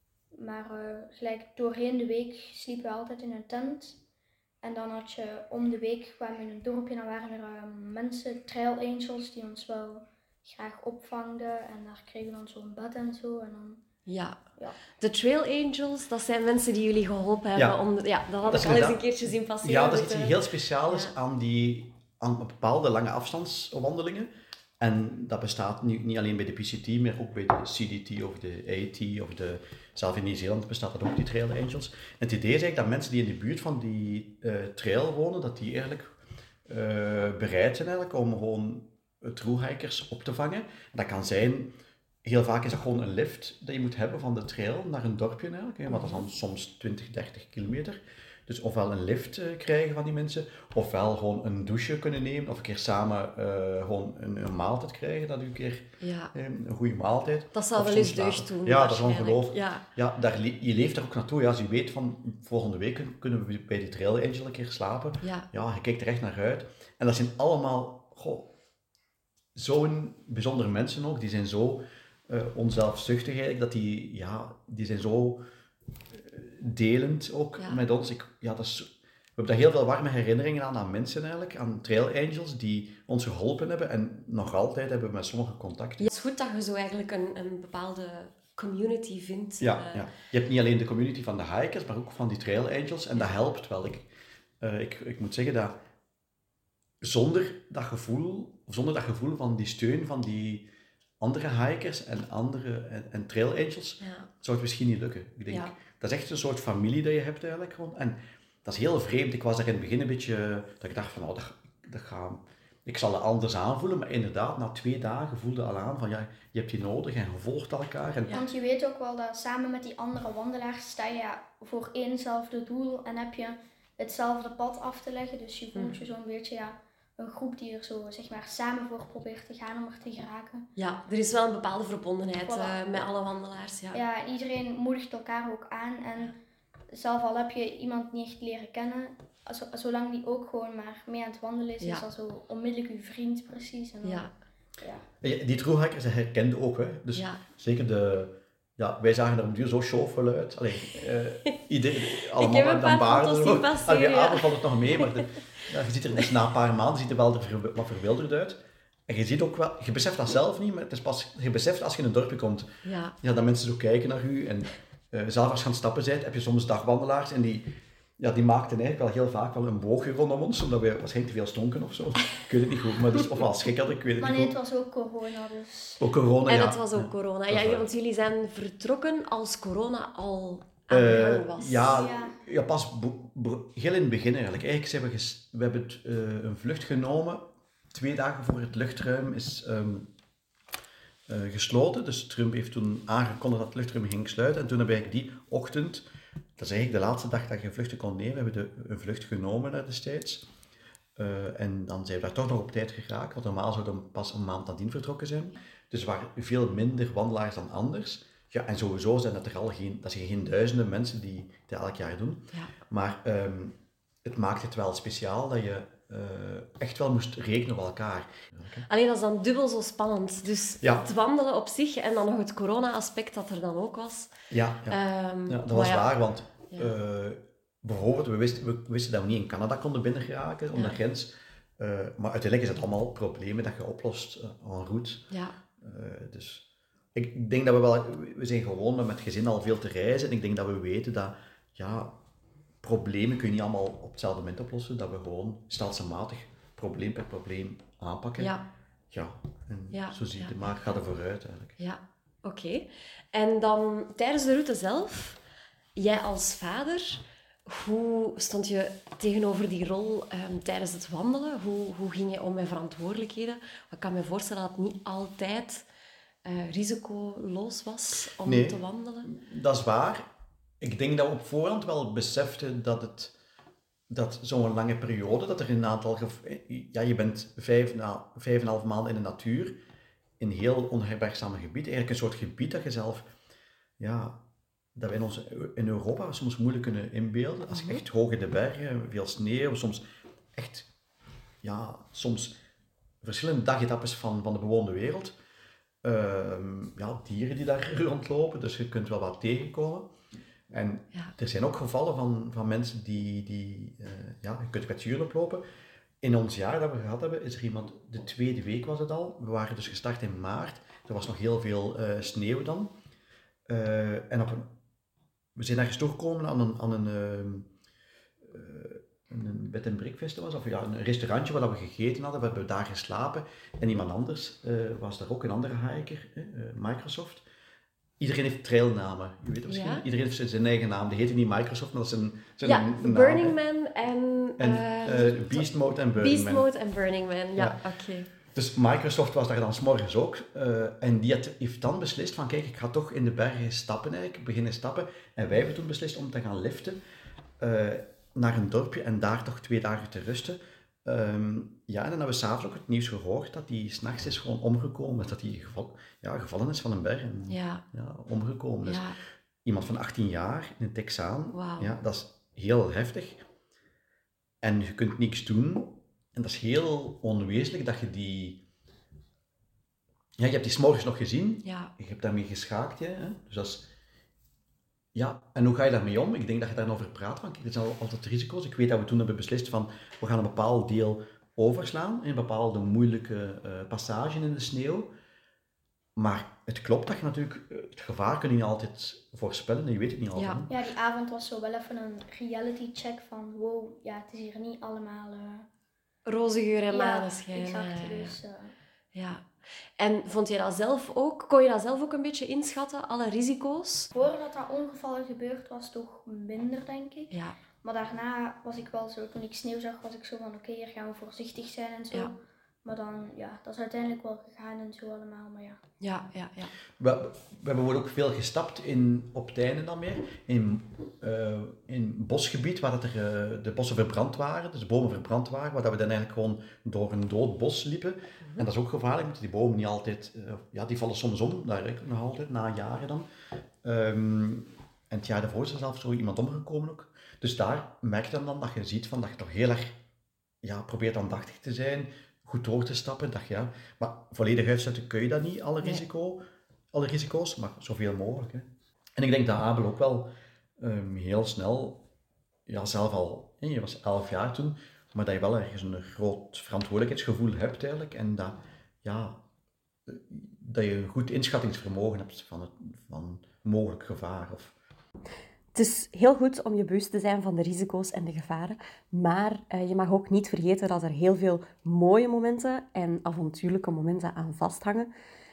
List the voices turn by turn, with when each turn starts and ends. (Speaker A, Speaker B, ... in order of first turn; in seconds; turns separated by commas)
Speaker A: 0.3-4.0, Speaker A: 4.6-13.8, Speaker B: 14.1-14.4, Speaker B: 15.0-21.1, Speaker C: 18.4-19.0, Speaker C: 19.6-24.3, Speaker C: 24.8-36.1, Speaker C: 36.7-68.5, Speaker B: 45.9-46.2, Speaker B: 56.0-56.3, Speaker B: 57.5-59.8, Speaker B: 65.2-65.5, Speaker C: 69.5-75.4, Speaker C: 76.1-86.1, Speaker B: 86.0-90.1, Speaker C: 89.6-94.1, Speaker C: 94.6-95.8, Speaker C: 97.0-100.7, Speaker C: 101.2-118.4, Speaker B: 104.0-104.3, Speaker B: 105.5-105.7, Speaker A: 118.3-130.7, Speaker B: 130.8-134.0, Speaker A: 132.4-133.0, Speaker A: 133.9-136.3, Speaker A: 136.9-144.2, Speaker B: 144.0-144.3, Speaker C: 145.2-162.7, Speaker B: 147.1-147.4, Speaker B: 151.5-155.3, Speaker B: 162.8-163.1, Speaker C: 163.2-174.5, Speaker A: 174.2-176.0, Speaker C: 176.0-177.8, Speaker B: 176.5-182.0, Speaker C: 180.9-190.1, Speaker A: 181.8-182.4, Speaker C: 191.3-196.0, Speaker C: 196.6-200.5, Speaker C: 201.2-218.8, Speaker B: 218.9-224.3, Speaker C: 224.5-235.3, Speaker B: 224.9-226.1, Speaker B: 226.7-226.9, Speaker C: 235.8-242.2, Speaker C: 242.8-248.5, Speaker B: 248.4-248.6, Speaker C: 249.1-251.8, Speaker B: 249.9-250.5, Speaker B: 251.8-255.4, Speaker B: 255.9-265.9, Speaker B: 266.4-269.3, Speaker C: 268.4-270.3, Speaker C: 270.8-273.3, Speaker C: 274.1-279.8, Speaker C: 280.4-283.3, Speaker C: 284.0-284.4, Speaker C: 284.9-290.9, Speaker B: 287.7-288.0, Speaker C: 291.6-292.5, Speaker C: 293.2-295.3, Speaker C: 296.0-300.1, Speaker C: 300.7-305.6, Speaker C: 306.2-312.9, Speaker C: 313.7-314.7, Speaker C: 315.5-317.7, Speaker C: 318.4-327.4, Speaker C: 328.2-333.6, Speaker B: 329.7-330.0, Speaker B: 332.6-338.3, Speaker C: 334.6-336.6, Speaker C: 338.5-347.0, Speaker C: 347.6-359.1, Speaker B: 357.5-357.8, Speaker B: 358.8-359.1, Speaker C: 359.6-363.4, Speaker B: 361.5-361.9, Speaker C: 364.6-368.6, Speaker C: 370.4-373.9, Speaker B: 371.6-371.9, Speaker C: 375.1-385.1, Speaker C: 386.1-390.8, Speaker B: 390.3-390.6, Speaker A: 390.7-395.7, Speaker B: 396.2-398.4, Speaker A: 396.9-398.7, Speaker B: 399.1-404.1, Speaker A: 404.1-415.8, Speaker B: 407.3-407.6, Speaker B: 416.0-416.7, Speaker C: 417.0-433.3, Speaker C: 433.8-440.0, Speaker C: 440.6-452.0, Speaker C: 452.7-459.4, Speaker C: 460.1-464.7, Speaker B: 465.7-475.1